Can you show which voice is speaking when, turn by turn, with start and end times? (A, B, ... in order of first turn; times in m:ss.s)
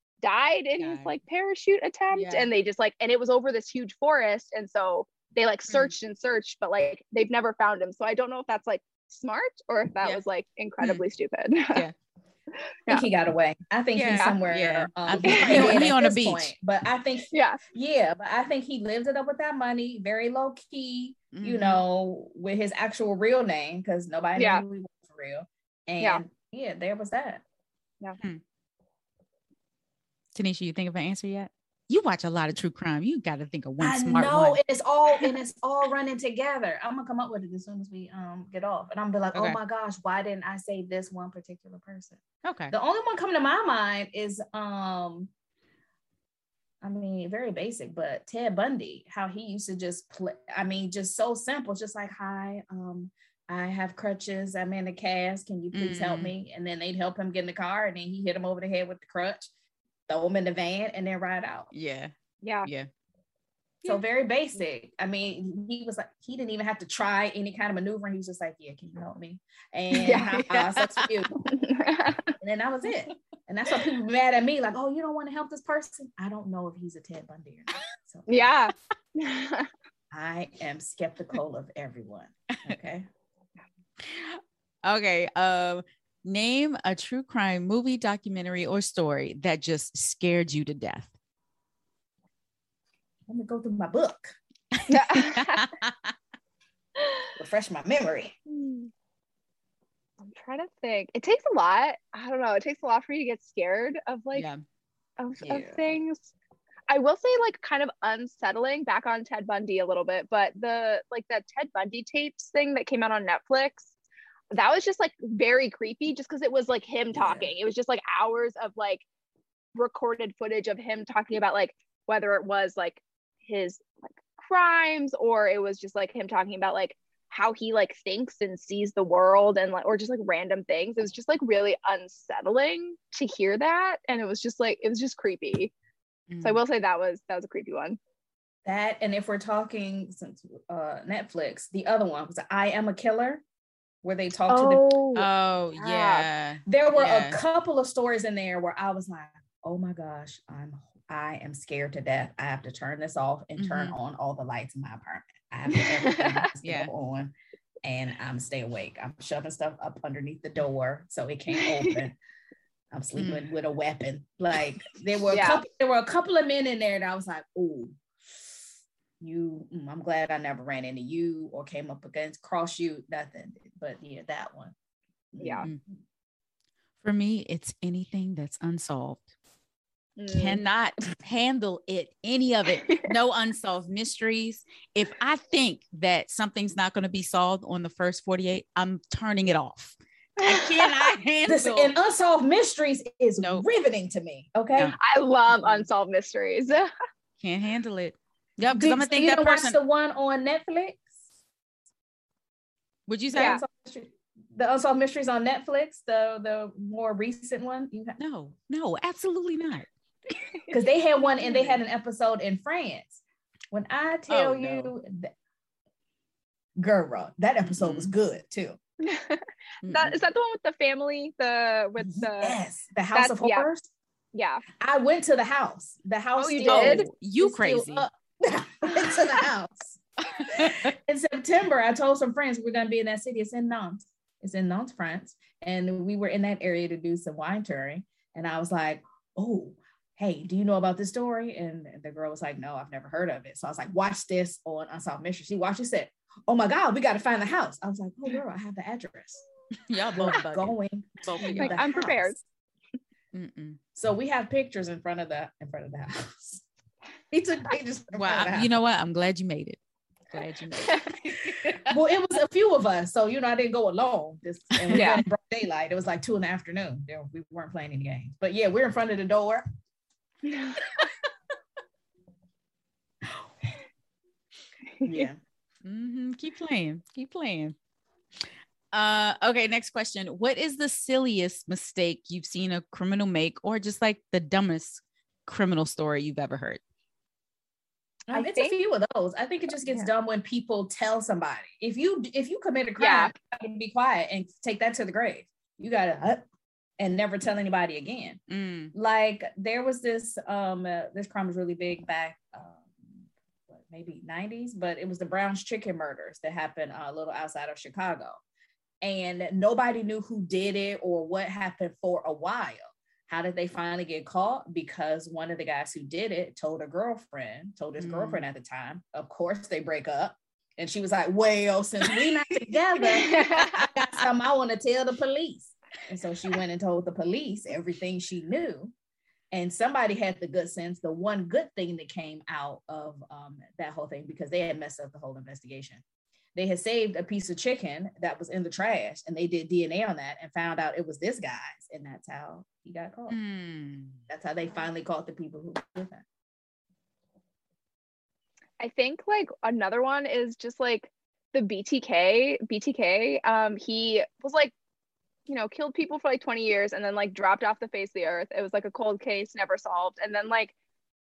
0:00.2-0:11.8 A
0:00.8-0:01.1 B
0:02.1-0:02.5 B
0:12.9-0:27.4 C
0:13.9-0:16.5 B
0:15.2-0:15.8 A
0:17.3-0:17.6 A
0:21.3-0:21.8 B
0:24.4-0:24.6 A
0:30.3-0:34.6 B
0:33.8-0:45.3 C
0:42.4-0:42.7 B
0:46.8-0:59.5 C
0:55.7-0:56.3 B
1:00.1-1:01.7 C
1:01.7-1:02.1 B
1:02.4-1:02.7 A
1:03.8-1:11.5 C
1:09.9-1:10.5 A
1:10.5-1:11.1 B
1:11.5-1:12.3 A
1:12.4-1:18.5 C
1:18.3-1:19.7 A
1:20.1-1:23.1 C
1:24.0-1:31.1 B
1:33.3-1:34.4 C
1:34.7-1:36.1 B
1:34.9-1:35.7 A
1:37.0-1:37.3 A
1:37.4-1:38.4 C
1:38.5-1:38.9 A
1:40.2-1:44.5 A
1:44.3-1:44.6 B
1:45.2-1:46.3 A
1:45.4-1:45.8 C
1:46.9-1:53.9 A
1:54.5-1:59.0 A
1:57.1-1:57.5 C
1:59.7-2:15.7 A
2:16.3-2:16.6 B
2:16.4-2:18.0 A
2:18.6-2:23.4 C
2:24.0-2:24.8 C
2:24.5-2:26.2 A
2:25.2-2:27.4 B
2:26.7-2:42.2 C
2:33.6-2:34.0 B
2:35.7-2:36.4 A
2:36.6-2:36.9 B
2:41.5-2:42.0 A
2:42.9-2:48.0 C
2:43.2-2:43.5 B
2:45.3-2:45.6 A
2:49.2-2:54.7 C
2:55.3-2:55.8 C
2:55.4-2:55.7 A
2:57.0-2:59.3 B
3:00.2-3:00.6 A
3:00.3-3:11.9 B
3:10.4-3:11.1 A
3:11.5-3:14.9 C
3:13.4-3:13.7 B
3:15.0-3:16.9 A
3:17.4-3:19.8 B
3:18.7-3:21.1 C
3:23.1-3:23.6 B
3:23.3-3:28.2 C
3:23.3-3:23.6 A
3:28.2-3:29.9 B
3:30.7-3:35.3 C
3:34.3-3:34.9 B
3:36.8-3:38.8 C
3:37.6-3:38.1 B
3:39.0-3:42.6 A
3:39.8-3:40.2 B
3:42.0-3:43.9 C
3:43.1-3:43.7 A
3:44.3-3:44.6 A
3:44.8-4:09.4 C
3:46.4-3:47.1 A
3:46.7-3:48.1 B
3:50.4-3:50.9 B
4:09.9-4:11.8 B
4:10.1-4:12.4 C
4:11.6-4:12.4 A
4:13.3-4:13.8 B
4:13.9-4:16.6 C
4:17.3-4:18.7 C
4:18.2-4:19.8 B
4:20.3-4:22.0 B
4:21.8-4:29.6 C
4:24.7-4:25.2 B
4:24.9-4:25.2 A
4:30.4-4:30.8 A
4:35.0-4:35.4 C
4:35.8-4:37.8 B
4:38.9-4:46.8 B
4:48.3-4:48.7 A
4:48.3-4:56.4 C
4:53.0-4:53.3 A
4:57.0-4:58.4 C
4:58.5-4:58.9 B
4:58.9-5:08.4 C
5:09.0-5:28.9 C
5:18.0-5:18.4 B
5:23.2-5:23.7 A
5:23.3-5:24.2 B
5:29.5-5:36.0 C
5:36.5-5:43.4 C
5:43.3-5:44.2 B
5:44.3-5:46.2 C
5:48.8-5:54.7 A
5:55.5-6:00.7 A